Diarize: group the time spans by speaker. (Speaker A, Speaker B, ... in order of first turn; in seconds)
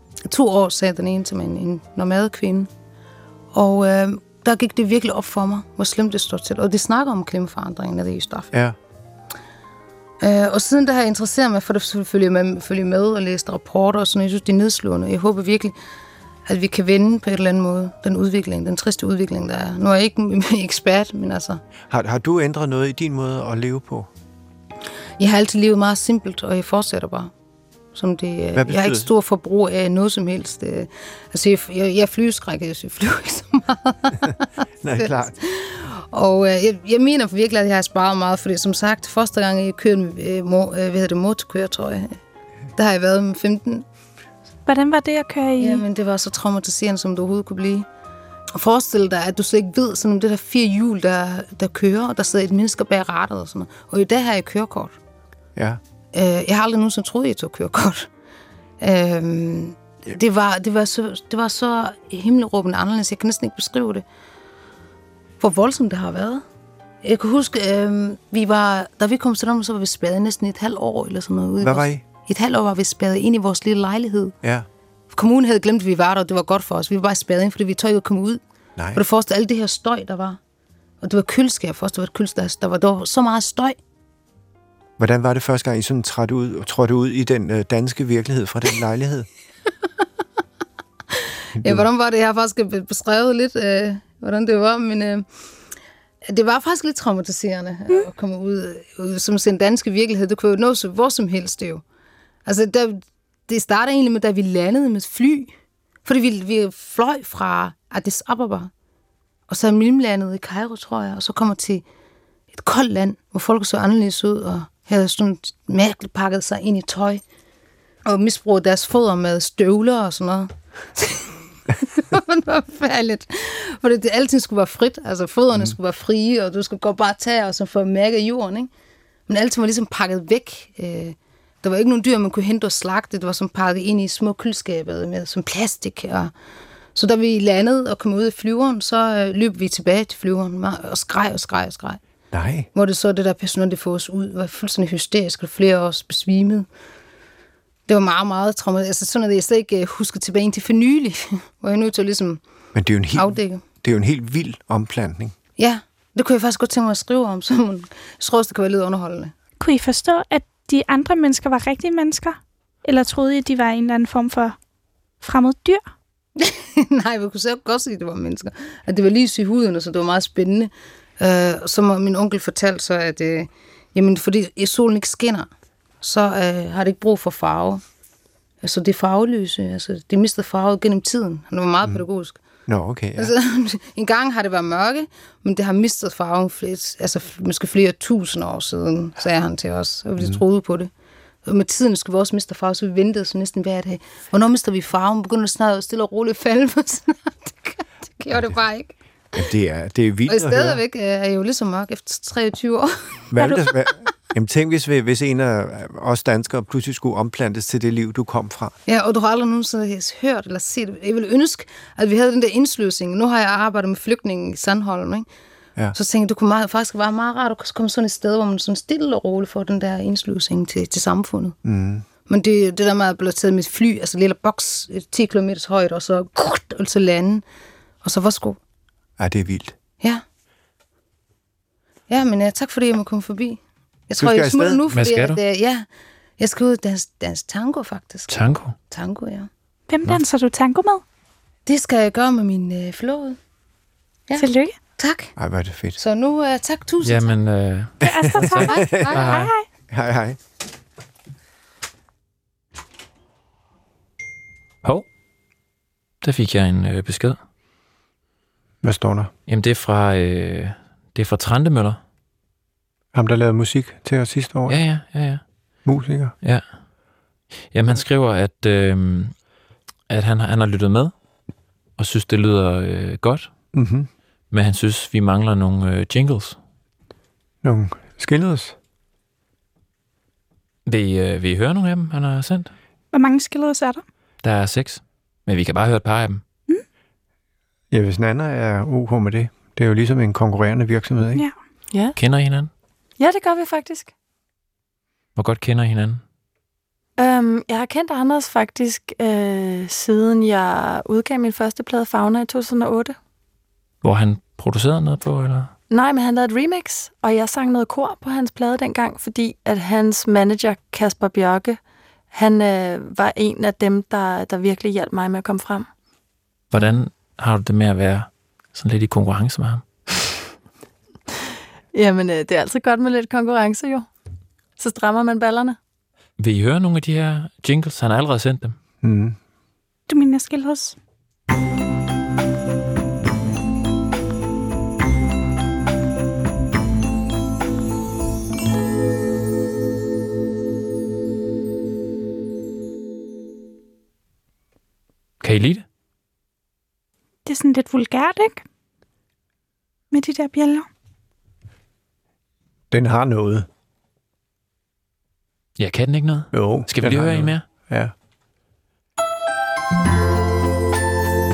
Speaker A: 0.3-2.7, 3.5-8.5, 10.2-15.8, 16.5-21.6, 25.2-27.3, 27.9-42.1, 42.8-43.9, 45.6-47.9, 48.5-55.0, 56.1-58.1, 58.8-64.0, 65.4-66.4, 67.0-74.3, 75.1-78.4, 79.0-80.4, 81.0-83.8, 91.6-95.2, 96.3-101.8, 102.5-105.5, 106.0-108.7, 109.5-111.8, 112.5-117.2, 118.1-128.7, 129.3-136.3, 136.9-142.0, 142.7-146.7, 147.9-152.4, 153.2-153.6, 155.6-159.3, 166.4-175.5, 176.0-177.8, 178.6-182.4, 183.2-190.9, 191.5-198.9, 200.3-203.2, 208.9-215.3, 215.9-221.6, 222.3-227.4, 228.0-228.6, 232.1-235.9, 236.4-238.3, 238.9-239.5, 241.7-243.4, 244.3-245.3, 246.0-247.3
Speaker B: 8.5-8.8, 21.9-24.1, 28.6-29.1, 34.8-35.4, 71.6-72.0, 85.0-89.3, 91.6-91.9, 142.3-142.7, 152.7-155.3, 182.7-183.3, 199.3-200.8, 203.3-208.8, 221.6-222.1, 229.2-229.8, 234.2-234.8, 245.4-246.0, 248.0-249.3, 249.9-250.4, 258.8-259.3, 263.1-264.8, 265.9-266.3, 273.7-274.1, 277.6-278.8, 287.9-291.4, 329.0-329.4, 352.9-353.7, 356.5-358.1
Speaker C: 44.7-45.9, 159.6-164.6, 165.2-165.9, 203.4-203.7, 239.9-241.0, 244.4-244.8, 248.0-249.7, 283.1-284.0, 330.1-331.0, 347.5-348.6, 350.1-350.9
Speaker D: 234.9-235.4, 238.3-238.8, 247.0-249.5, 256.2-257.4, 259.5-262.0, 264.7-265.4, 267.7-269.3, 270.1-271.1, 272.0-273.5, 274.5-276.6, 280.9-282.7, 284.4-286.4, 292.2-292.7, 295.4-296.2, 304.0-305.7, 316.7-319.9, 326.4-328.8, 345.4-345.8, 355.8-357.6
Speaker E: 291.9-292.2, 293.2-294.1, 297.2-303.2, 305.9-311.8, 312.3-315.9, 321.9-324.1, 324.8-325.8